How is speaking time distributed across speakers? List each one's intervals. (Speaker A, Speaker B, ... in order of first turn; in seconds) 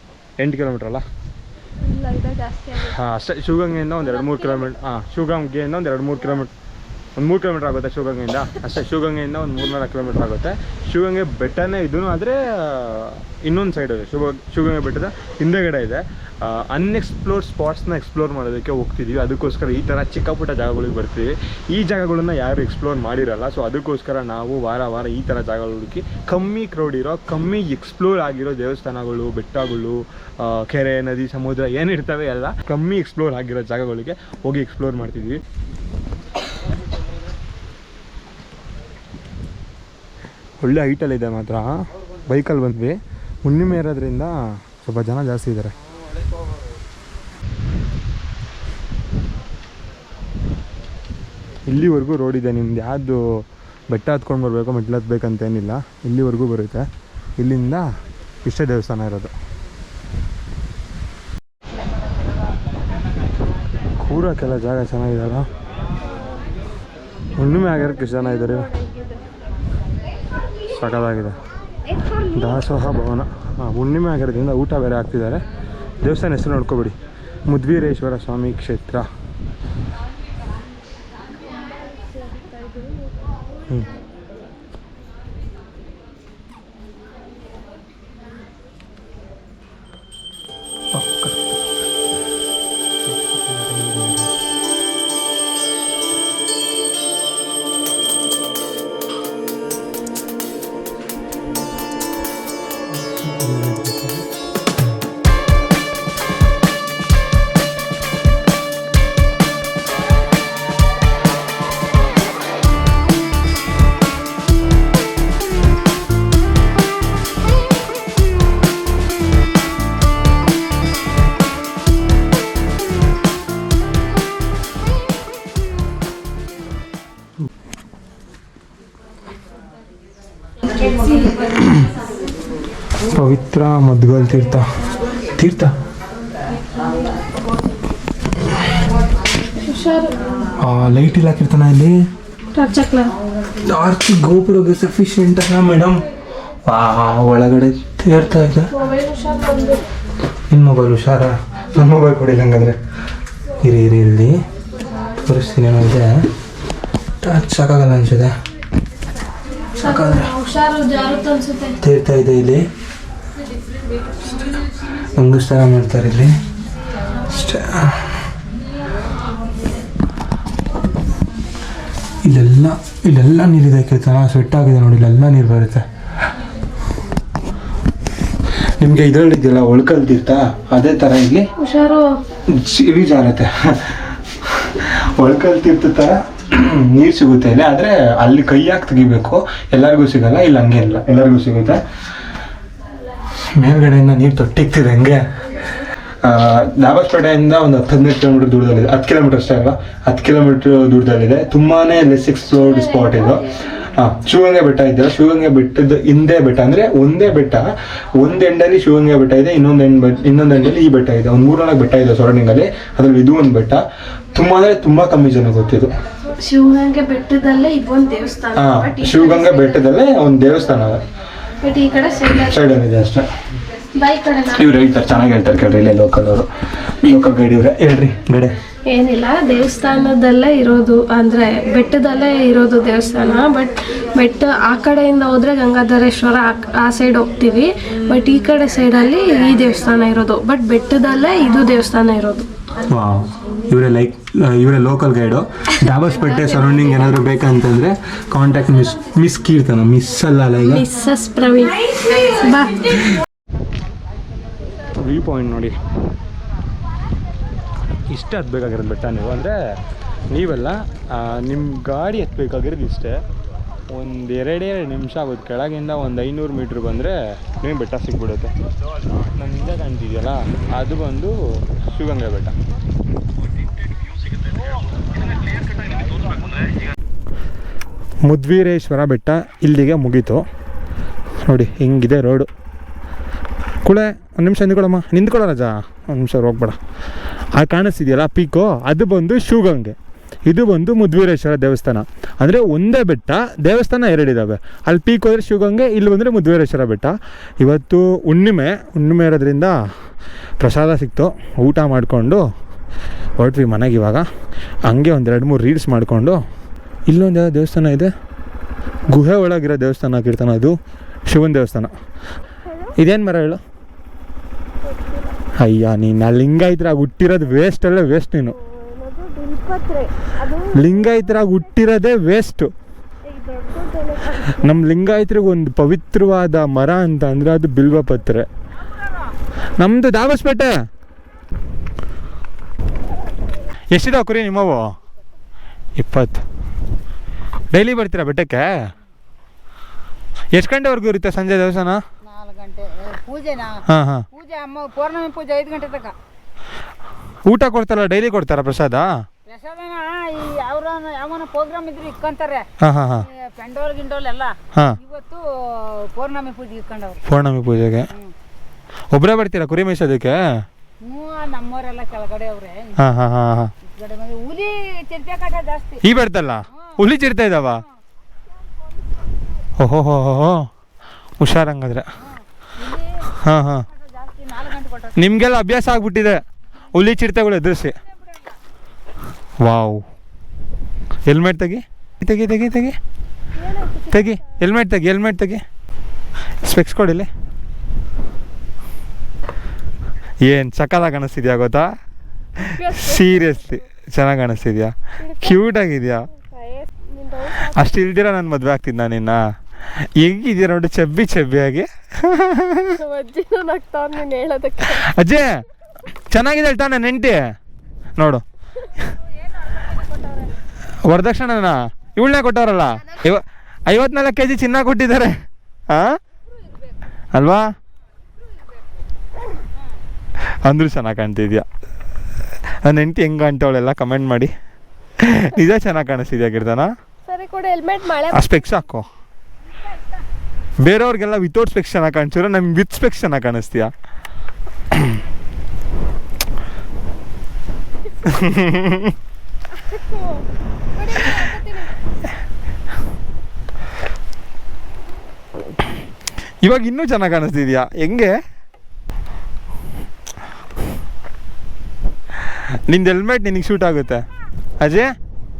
Speaker A: 0.4-1.0, 2.8-6.5, 7.2-35.4, 40.6-41.7, 42.2-45.7, 51.6-53.2, 53.9-56.9, 57.4-57.9, 58.4-59.3, 64.0-65.4, 67.3-68.7, 70.7-71.4, 72.2-75.4, 76.0-76.9, 77.5-79.1, 90.9-91.5, 93.1-94.3, 102.9-104.2, 133.1-134.6, 135.3-135.7, 140.6-141.9, 143.6-146.0, 146.7-148.7, 150.5-152.8, 153.6-154.3, 155.2-156.2, 157.2-158.3, 159.8-160.3, 161.8-162.6, 165.1-166.3, 167.3-168.0, 172.2-175.8, 178.8-181.5, 182.5-184.0, 184.5-191.8, 193.5-195.2, 196.2-207.7, 208.2-215.9, 218.5-221.0, 222.3-223.3, 224.5-226.5, 227.0-228.5, 242.9-250.9, 255.0-255.8, 258.1-259.6, 260.3-263.2, 263.9-268.5, 269.3-272.5, 278.2-280.4, 281.4-282.5, 283.8-286.8, 287.6-289.9, 290.5-299.7, 300.6-302.4, 303.4-304.2, 304.9-306.4, 307.1-308.1, 309.1-310.7, 311.3-311.9, 313.0-313.6, 315.6-318.5, 320.7-322.7, 324.4-328.4, 329.8-330.7, 333.9-334.9, 336.0-336.4, 337.7-338.7, 340.5-342.0, 343.9-344.2, 347.4-349.1, 352.8-353.2, 357.2-358.1, 359.1-360.4, 363.0-363.7, 366.0-367.8, 369.8-370.6, 371.4-372.0, 373.4-373.8, 375.2-376.4, 376.9-378.0, 379.6-380.0, 381.3-383.0, 384.1-385.6, 386.6-387.3, 390.4-391.8, 392.7-396.2, 397.6-399.4, 400.2-402.9, 404.9-405.5, 406.3-407.4, 411.0-415.3, 415.9-416.1, 417.3-417.6, 420.6-421.6, 422.8-424.5, 425.2-426.9, 428.3-429.1, 430.8-433.9, 438.2-439.1, 446.6-448.3, 452.9-454.2, 454.8-455.1
Speaker B: 1.8-2.8, 66.2-66.4, 68.0-69.2, 82.1-83.1, 139.6-140.2, 142.5-143.1, 148.7-149.8, 159.8-161.8, 181.6-182.2, 216.4-219.8, 221.6-222.5, 223.9-224.6, 228.8-242.5, 250.7-252.9, 312.7-312.9, 314.9-315.4, 318.5-321.3, 323.3-324.4, 383.6-384.6, 392.8-393.8, 395.2-395.6, 396.4-397.9, 402.9-405.0, 427.2-428.6, 439.8-440.4, 440.9-441.9
Speaker C: 329.0-329.3, 342.2-343.8, 344.3-346.1, 349.5-352.6, 353.2-357.2, 361.0-362.9, 363.9-366.0, 372.2-373.3, 373.9-375.2, 409.2-410.6, 429.7-430.2